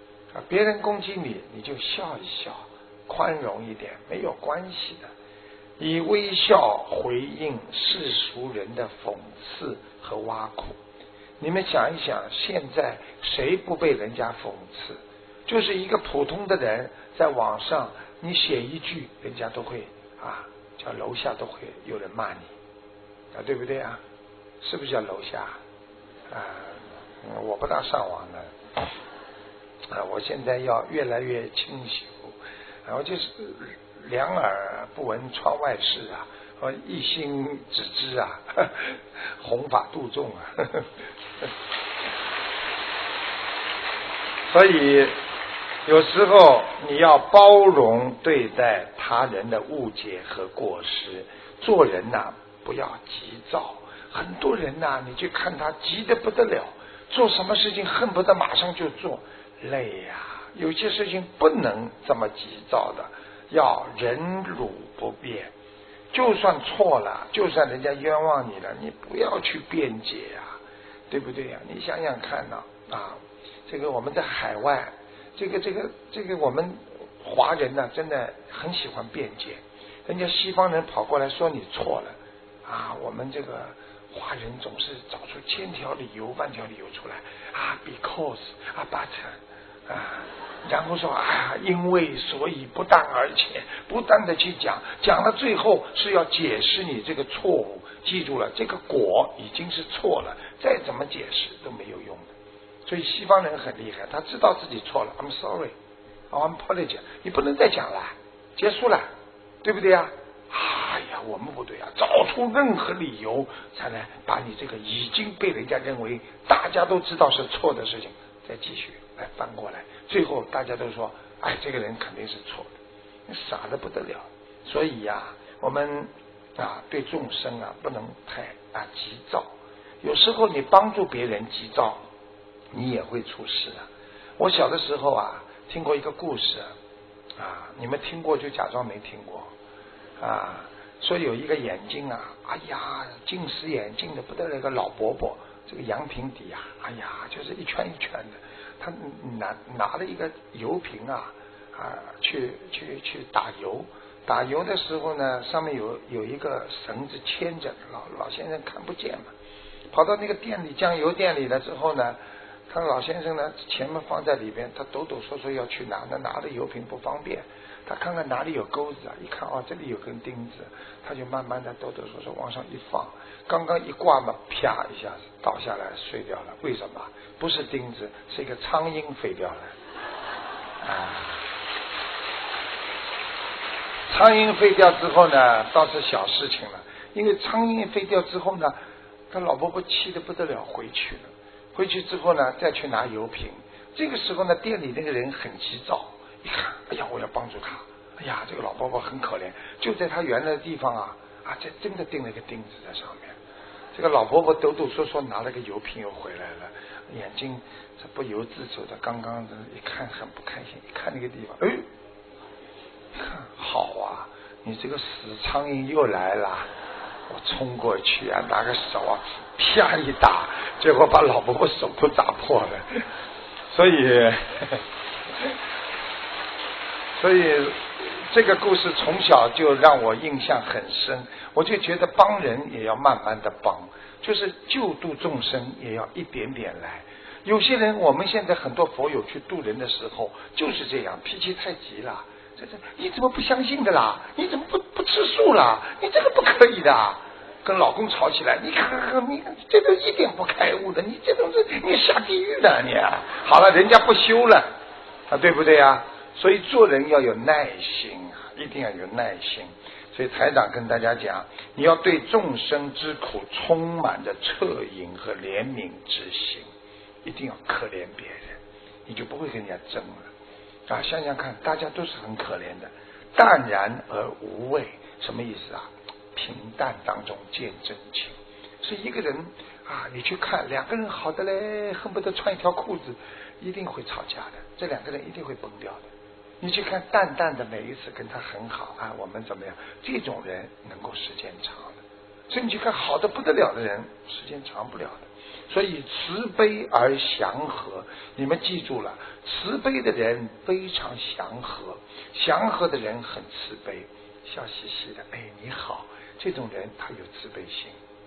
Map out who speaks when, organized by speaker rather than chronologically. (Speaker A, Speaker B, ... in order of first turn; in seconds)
Speaker A: 0.3-5.1, 5.8-10.8, 11.4-22.5, 23.3-24.0, 24.6-25.6, 26.3-28.5, 29.9-40.9, 44.5-45.2, 45.9-65.5, 66.1-102.3, 102.8-105.7, 106.3-109.1, 109.6-122.7, 123.3-132.1, 132.7-133.9, 134.4-136.7, 137.4-139.5, 140.2-159.3, 159.9-179.7, 180.8-181.4, 184.1-188.8, 189.3-203.4, 203.9-211.8, 213.1-216.7, 217.3-223.1, 223.7-224.8, 227.2-254.7, 255.3-266.7, 267.2-270.3, 270.9-286.1, 286.6-308.0